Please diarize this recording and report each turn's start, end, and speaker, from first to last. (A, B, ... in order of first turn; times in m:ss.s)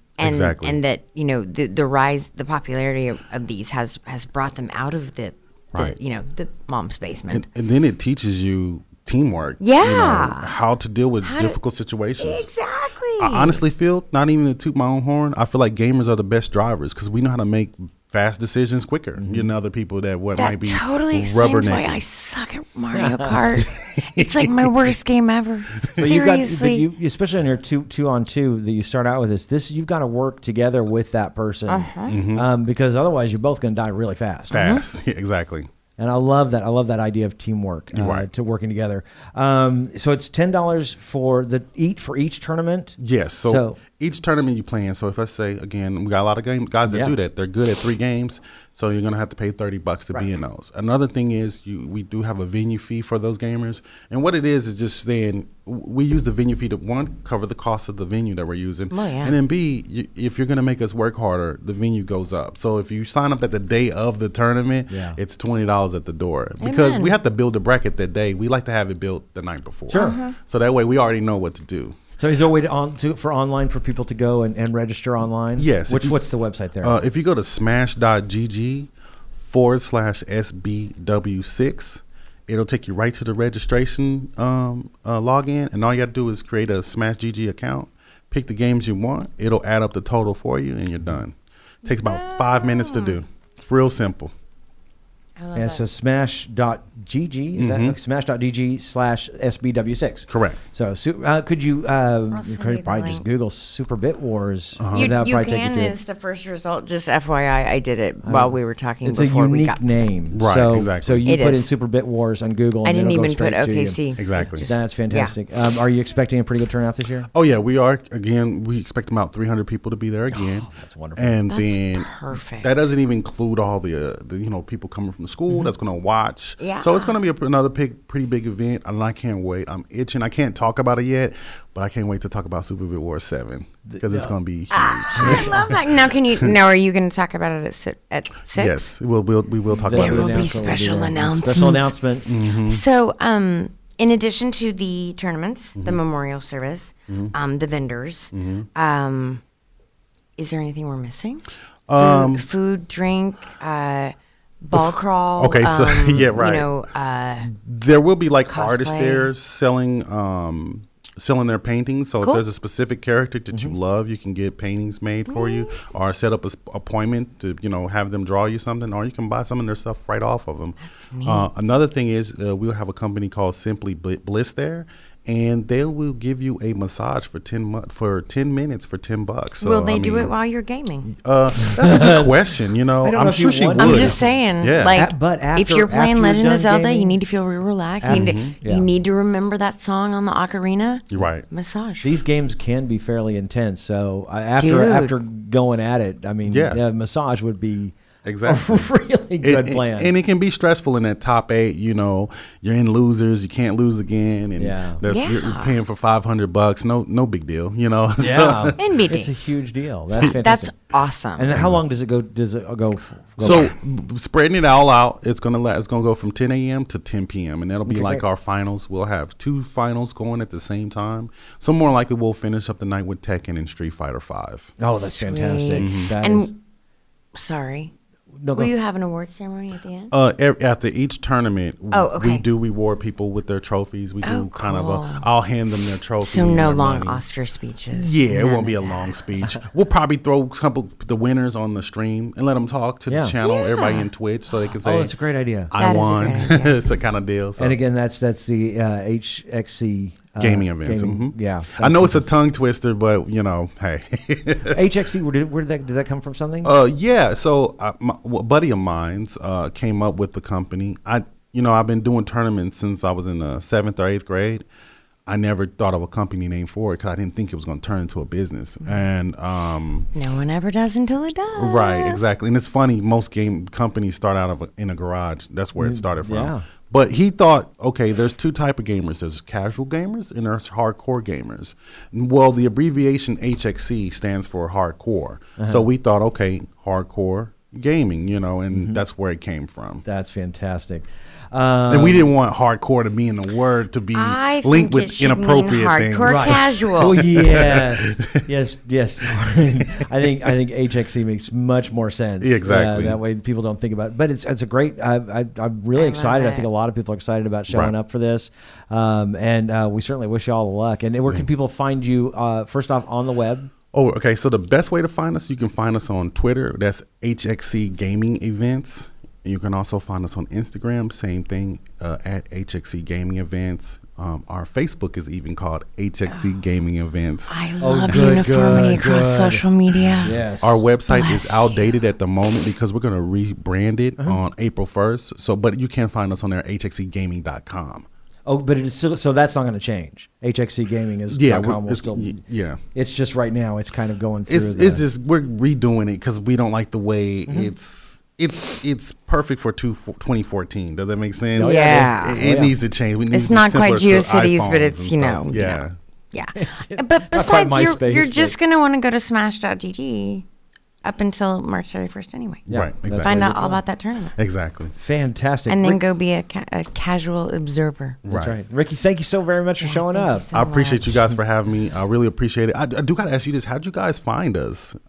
0:00.2-0:00.8 A
0:00.2-0:07.5 B
0:07.3-0:12.4 A
0:09.6-0:10.5 B
0:11.2-0:11.6 B
0:12.2-0:13.6 B
0:13.2-0:22.0 A
0:19.2-0:19.5 C
0:20.3-0:26.9 B
0:22.9-0:23.4 C
0:23.6-0:24.7 A
0:26.0-0:34.6 C
0:31.7-0:32.2 B
0:32.0-0:32.5 A
0:34.5-0:34.9 B
0:34.5-0:35.7 A
0:36.0-0:43.8 C
0:37.9-0:38.3 A
0:43.0-1:12.0 A
0:46.8-0:47.2 C
0:58.9-0:59.4 B
1:04.9-1:05.2 C
1:06.6-1:07.2 B
1:09.9-1:10.2 C
1:09.9-1:10.4 B
1:12.2-1:17.0 C
1:15.6-1:16.2 A
1:16.8-1:34.3 A
1:31.8-1:33.2 B
1:35.4-1:35.8 B
1:35.5-1:46.0 C
1:37.6-1:38.0 A
1:40.3-1:40.6 A
1:42.3-1:43.2 B
1:44.8-1:45.1 A
1:44.9-1:50.1 B
1:48.2-1:54.0 C
1:50.3-1:51.4 A
1:51.2-1:51.7 B
1:52.8-1:55.3 B
1:54.2-1:54.7 A
1:54.6-1:57.3 C
1:57.3-2:16.6 A
2:00.3-2:01.4 C
2:01.5-2:02.7 B
2:06.6-2:07.2 B
2:13.9-2:14.3 C
2:14.7-2:18.9 B
2:15.1-2:15.7 C
2:18.6-2:20.7 A
2:19.8-2:22.3 C
2:19.9-2:29.4 B
2:22.2-2:22.8 A
2:27.1-2:27.3 A
2:28.3-2:28.7 A
2:30.4-2:37.5 B
2:31.9-2:32.4 A
2:34.7-2:36.8 A
2:37.4-3:00.3 A
2:38.4-2:39.3 B
2:45.3-2:45.9 B
2:50.8-2:51.5 B
2:59.6-3:01.1 B
3:01.1-3:05.0 A
3:01.7-3:02.3 C
3:03.0-3:04.2 C
3:03.8-3:12.1 B
3:04.9-3:07.2 C
3:08.0-3:08.9 C
3:08.1-3:08.5 A
3:11.1-3:11.4 A
3:12.0-3:20.1 C
3:14.6-3:15.2 B
3:16.4-3:16.8 A
3:18.2-3:18.9 A
3:19.4-3:28.8 A
3:24.6-3:25.0 C
3:25.0-3:25.8 B
3:28.2-3:30.7 C
3:28.8-3:29.3 B
3:30.4-3:31.5 B
3:31.4-3:33.7 C
3:31.5-3:31.8 A
3:33.4-3:44.7 A
3:37.8-3:38.2 C
3:44.8-3:46.5 C
3:45.0-3:46.6 B
3:45.8-3:46.1 A
3:47.3-3:47.9 B
3:48.4-3:48.7 C
3:48.5-3:50.1 B
3:50.1-3:57.2 A
3:51.9-3:52.4 B
3:54.2-3:55.2 B
3:56.2-3:59.2 B
3:57.9-4:05.1 A
4:03.1-4:03.4 C
4:03.4-4:04.1 B
4:04.8-4:05.7 C
4:05.7-4:07.8 A
4:05.8-4:06.8 B
4:07.6-4:12.2 C
4:10.4-4:14.8 A
4:14.7-4:16.7 C
4:16.6-4:24.6 A
4:25.2-4:30.1 A
4:30.1-4:32.2 B
4:31.6-4:50.0 A
4:35.8-4:36.6 C
4:45.6-4:45.8 C
4:48.7-4:49.0 C
4:50.0-4:52.3 C
4:51.9-4:58.4 A
4:54.1-4:57.2 B
4:56.2-5:13.7 C
4:59.8-5:00.0 A
5:02.4-5:03.2 A
5:05.9-5:06.7 B
5:13.9-5:28.8 A
5:27.5-5:30.4 B
5:27.8-5:29.6 C
5:30.0-5:38.0 A
5:30.2-5:30.8 C
5:31.1-5:32.0 B
5:38.4-5:42.4 C
5:41.3-5:42.8 A
5:42.9-5:45.0 C
5:44.5-5:56.0 A
5:51.5-5:52.7 C
5:51.6-5:52.4 B
5:53.3-6:00.4 B
5:56.5-5:58.6 C
6:01.0-6:04.3 B
6:02.7-6:03.5 A
6:02.7-6:03.8 C
6:04.4-6:04.9 A
6:04.9-6:06.0 C
6:05.7-6:08.2 B
6:08.2-6:08.6 A
6:08.3-6:10.5 C
6:09.8-6:11.2 B
6:10.5-6:15.0 A